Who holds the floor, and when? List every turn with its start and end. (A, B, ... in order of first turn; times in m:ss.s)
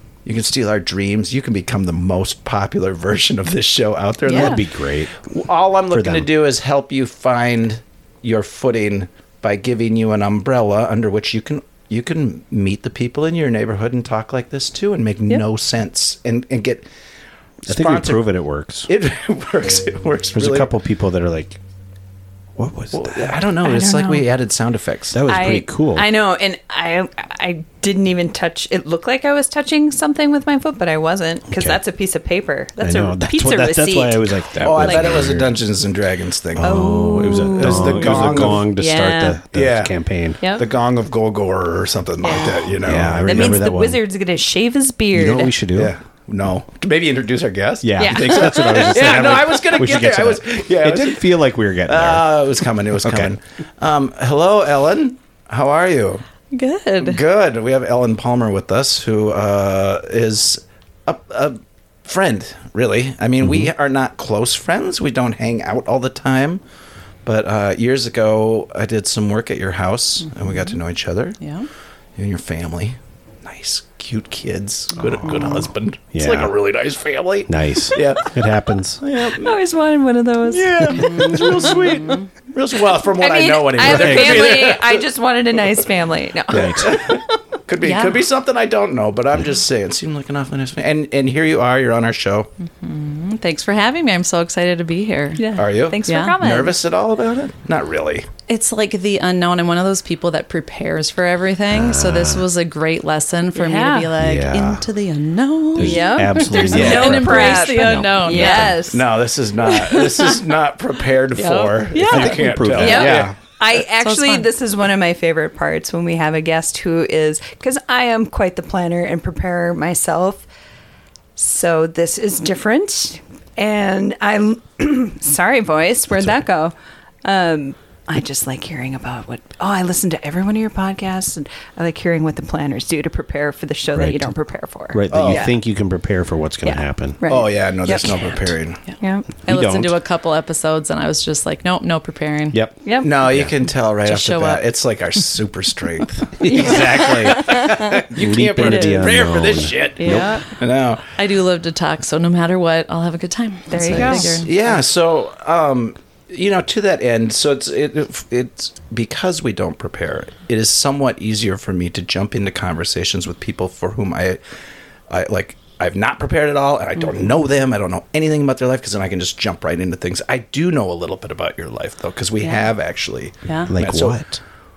0:00.2-0:04.6 A
0:04.3-0:04.6 B
0:04.3-0:05.3 C
0:05.3-0:16.9 A
0:05.9-0:06.3 C
0:17.6-0:18.3 A
0:17.7-0:18.9 C
0:18.9-0:20.7 A
0:20.3-0:21.6 C
0:22.6-0:23.3 C
0:22.9-0:25.2 A
0:23.6-0:24.3 D
0:25.1-0:26.1 C
0:25.3-0:35.3 D
0:31.5-0:31.8 C
0:32.8-0:35.6 C
0:34.6-0:38.7 A
0:36.6-0:40.4 C
0:36.6-0:39.4 D
0:39.5-0:40.0 A
0:40.6-0:43.6 A
0:42.2-0:42.8 D
0:42.8-0:44.0 C
0:43.3-0:45.6 D
0:45.1-0:46.0 C
0:45.8-0:51.3 A
0:47.8-0:52.3 C
0:48.0-0:49.3 D
0:51.9-0:56.2 A
0:53.0-0:53.4 C
0:56.5-0:57.2 D
0:57.0-1:06.6 A
1:03.4-1:03.7 C
1:07.2-1:11.4 A
1:11.4-1:11.7 B
1:12.2-1:18.4 A
1:16.1-1:16.6 C
1:17.5-1:19.0 C
1:19.0-1:19.5 A
1:19.2-1:22.0 D
1:20.5-1:25.1 A
1:21.0-1:22.2 B
1:23.2-1:27.2 D
1:23.8-1:24.7 C
1:26.5-1:26.9 C
1:26.5-1:32.5 A
1:27.8-1:28.2 B
1:32.8-1:35.4 B
1:35.4-1:36.8 D
1:35.6-1:38.3 A
1:36.1-1:36.4 B
1:38.5-1:48.8 B
1:41.7-1:42.4 C
1:43.6-1:44.1 D
1:44.2-1:44.8 C
1:45.8-1:48.8 C
1:45.8-1:49.0 D
1:46.7-1:47.2 A
1:48.9-1:53.3 A
1:49.7-1:50.4 B
1:51.4-1:53.1 B
1:52.0-1:53.4 C
1:52.8-2:00.5 D
1:54.0-1:54.5 B
2:01.4-2:15.6 D
2:06.1-2:06.4 C
2:14.0-2:14.3 C
2:14.9-2:17.2 C
2:15.1-2:15.5 A
2:16.6-2:18.4 D
2:17.3-2:18.8 A
2:19.0-2:19.3 D
2:19.4-2:22.6 B
2:19.5-2:20.0 C
2:22.5-2:23.5 C
2:22.8-2:23.1 D
2:23.0-2:31.0 A
2:24.0-2:24.6 B
2:26.4-2:30.4 C
2:26.6-2:27.8 D
2:28.6-2:29.4 D
2:30.0-2:30.5 D
2:31.2-2:34.8 B
2:33.7-2:34.5 D
2:33.9-2:44.4 A
2:45.1-2:54.2 A
2:52.4-2:52.7 B
2:53.5-2:53.7 B
2:53.7-2:54.4 C